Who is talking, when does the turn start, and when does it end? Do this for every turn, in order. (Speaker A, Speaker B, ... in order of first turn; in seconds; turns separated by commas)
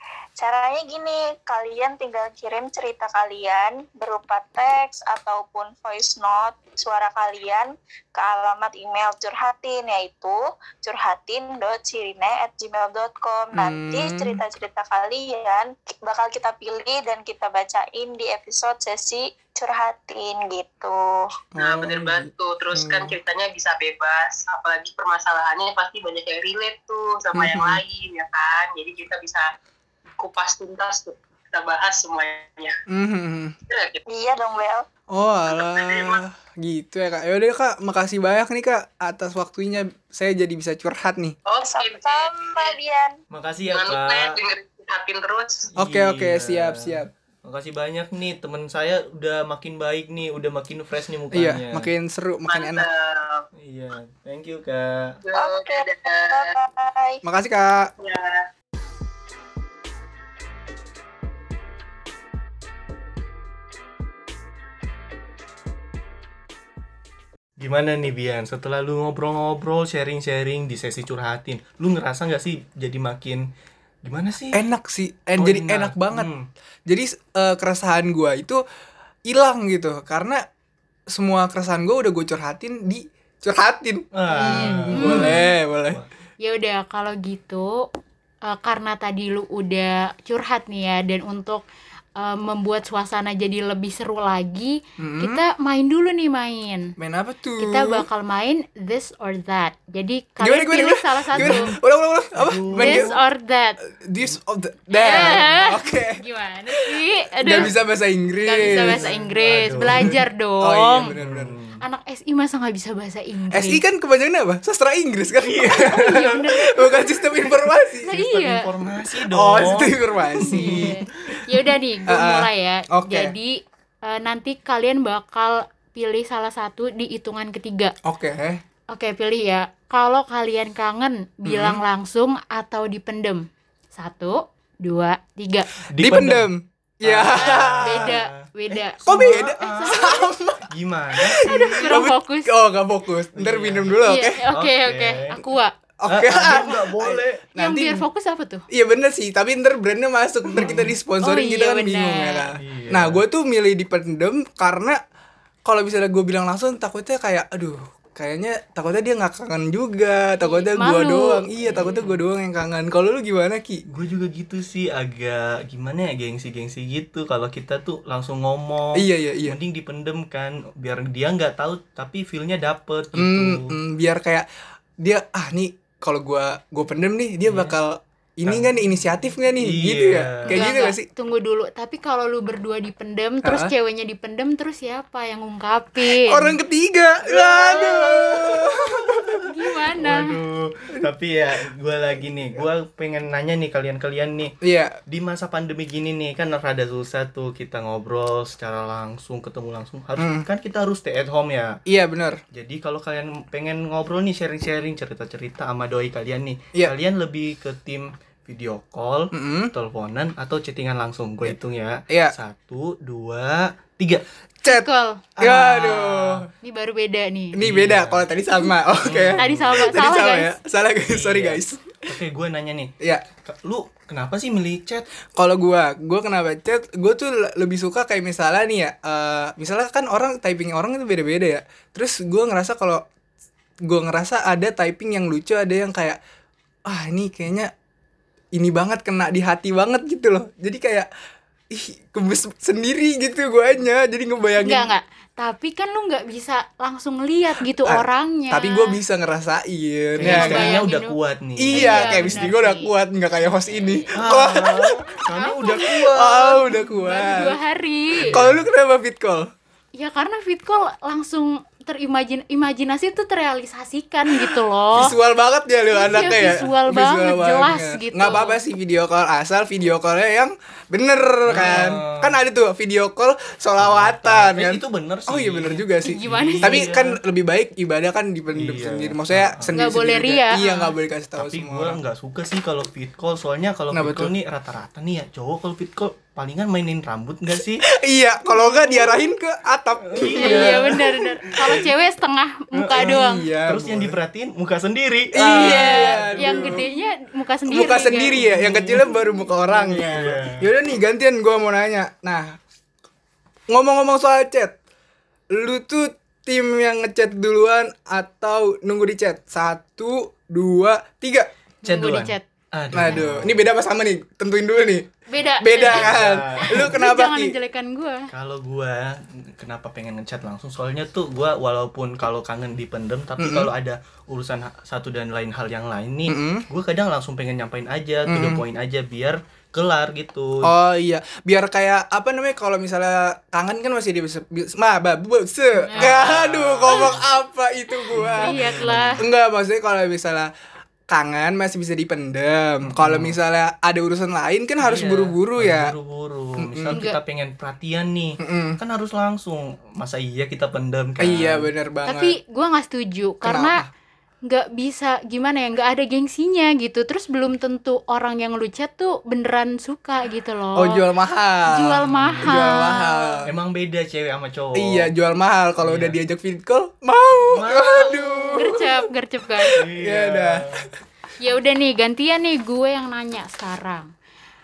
Speaker A: 0.4-21.0, Speaker B: 13.5-14.4, Speaker B: 21.6-23.2, Speaker C: 21.6-29.5, Speaker B: 27.3-27.8, Speaker C: 30.2-32.8, Speaker B: 32.9-33.6, Speaker C: 33.7-34.0, Speaker A: 34.1-34.9, Speaker B: 35.1-41.4, Speaker C: 35.5-36.2, Speaker C: 41.5-42.8, Speaker A: 41.6-43.2, Speaker D: 43.3-44.4, Speaker C: 43.6-45.7, Speaker D: 45.8-51.9, Speaker B: 45.8-47.1, Speaker B: 51.3-52.9, Speaker C: 52.5-53.5, Speaker D: 53.6-55.2, Speaker C: 55.2-56.5, Speaker A: 55.4-57.2, Speaker B: 57.2-57.9, Speaker C: 58.0-58.5, Speaker D: 67.6-73.5, Speaker D: 74.0-74.6, Speaker B: 74.5-76.3, Speaker D: 75.4-76.5, Speaker B: 76.9-78.6, Speaker B: 79.3-80.4, Speaker B: 81.1-86.0, Speaker D: 84.1-86.1, Speaker E: 84.3-85.5, Speaker E: 86.4-87.9, Speaker E: 88.4-91.6, Speaker E: 92.2-97.0, Speaker B: 95.0-95.4, Speaker B: 97.0-98.1, Speaker E: 97.6-101.7, Speaker B: 100.4-103.1, Speaker D: 101.3-101.8, Speaker D: 102.3-103.1, Speaker E: 102.8-103.8, Speaker B: 103.9-109.1, Speaker E: 104.9-107.7, Speaker D: 105.1-105.4, Speaker E: 108.4-111.1, Speaker D: 108.8-110.2, Speaker B: 109.8-111.5, Speaker D: 111.2-111.8, Speaker E: 111.8-113.8, Speaker B: 113.5-118.1, Speaker D: 115.5-116.3, Speaker E: 115.7-117.2, Speaker D: 118.0-121.4, Speaker E: 118.0-118.7, Speaker B: 119.3-121.0, Speaker E: 120.4-127.9, Speaker B: 122.1-123.3, Speaker B: 128.1-128.6, Speaker E: 128.9-135.7, Speaker B: 131.5-131.8, Speaker D: 135.9-136.5, Speaker B: 135.9-138.1, Speaker D: 137.0-142.1, Speaker E: 137.4-140.3, Speaker B: 139.1-144.4, Speaker E: 141.4-142.5, Speaker D: 143.3-145.4, Speaker E: 144.0-145.7, Speaker B: 146.0-148.0, Speaker D: 146.1-147.4, Speaker E: 147.6-148.7, Speaker B: 148.7-155.0, Speaker D: 150.6-150.9, Speaker E: 151.2-152.5, Speaker D: 152.6-153.2, Speaker B: 155.7-163.8, Speaker E: 160.4-161.5, Speaker D: 161.6-162.2, Speaker D: 163.9-173.7, Speaker B: 168.9-169.6, Speaker B: 173.1-174.5, Speaker B: 175.0-181.1, Speaker D: 177.5-177.8, Speaker D: 178.4-178.8, Speaker D: 179.6-180.7, Speaker E: 180.5-186.5, Speaker B: 183.4-183.7, Speaker B: 186.1-189.4, Speaker D: 187.2-189.4, Speaker E: 189.4-190.4, Speaker D: 190.0-194.5, Speaker B: 194.6-195.0, Speaker D: 195.1-201.8, Speaker B: 200.2-200.5, Speaker B: 201.9-202.4, Speaker D: 202.5-214.2, Speaker B: 209.3-209.7, Speaker B: 212.1-212.3, Speaker B: 214.6-216.5, Speaker E: 214.7-215.3, Speaker D: 215.4-216.4, Speaker E: 216.6-217.6, Speaker B: 217.5-222.0, Speaker D: 217.6-218.3, Speaker D: 219.0-220.1, Speaker E: 219.4-220.5, Speaker D: 221.0-222.9, Speaker B: 223.0-223.2, Speaker D: 223.4-225.1, Speaker B: 225.3-233.1, Speaker B: 233.8-236.2, Speaker B: 236.9-237.7, Speaker B: 238.5-241.1, Speaker B: 241.7-244.9, Speaker E: 244.6-249.0, Speaker B: 247.8-250.8, Speaker D: 250.2-252.5, Speaker E: 250.2-251.2, Speaker B: 251.6-255.2, Speaker E: 251.7-252.9, Speaker D: 254.1-256.6, Speaker E: 255.3-258.4, Speaker B: 256.1-257.6, Speaker D: 258.2-258.6, Speaker B: 258.3-259.5, Speaker E: 259.9-265.1, Speaker B: 264.9-282.0, Speaker E: 265.9-268.6, Speaker D: 271.5-272.4, Speaker D: 273.8-277.2, Speaker E: 276.1-276.9, Speaker D: 278.5-279.8, Speaker E: 279.7-280.9, Speaker D: 281.4-287.9, Speaker B: 283.9-284.3, Speaker B: 287.8-291.0, Speaker D: 288.8-289.1, Speaker D: 290.0-291.9, Speaker E: 290.4-293.5, Speaker D: 292.7-296.9, Speaker B: 292.9-294.2, Speaker B: 295.3-296.9, Speaker E: 295.4-298.4, Speaker B: 297.7-302.6, Speaker D: 298.3-300.7, Speaker B: 303.7-304.8, Speaker B: 305.5-311.5, Speaker E: 311.9-312.4, Speaker D: 311.9-313.7, Speaker B: 312.9-317.6, Speaker E: 315.3-318.3, Speaker D: 315.8-317.0, Speaker D: 318.3-330.7, Speaker B: 323.4-323.7, Speaker B: 326.3-326.7, Speaker B: 328.3-328.6, Speaker B: 330.6-340.5, Speaker E: 335.8-336.1, Speaker D: 336.0-337.3, Speaker D: 338.1-339.2, Speaker E: 338.2-339.2, Speaker B: 341.1-345.9, Speaker D: 342.9-343.4, Speaker D: 344.8-351.7, Speaker B: 346.6-347.0, Speaker B: 348.4-348.8, Speaker B: 351.2-352.4, Speaker E: 352.1-353.8, Speaker B: 353.4-353.9, Speaker E: 354.4-361.0, Speaker B: 360.8-363.5, Speaker E: 361.7-363.4, Speaker D: 362.1-362.6, Speaker D: 363.5-365.1, Speaker B: 364.8-368.9, Speaker D: 365.8-366.2, Speaker D: 367.5-368.6, Speaker E: 368.1-369.8, Speaker B: 369.6-370.7, Speaker D: 369.7-370.9, Speaker E: 371.4-374.1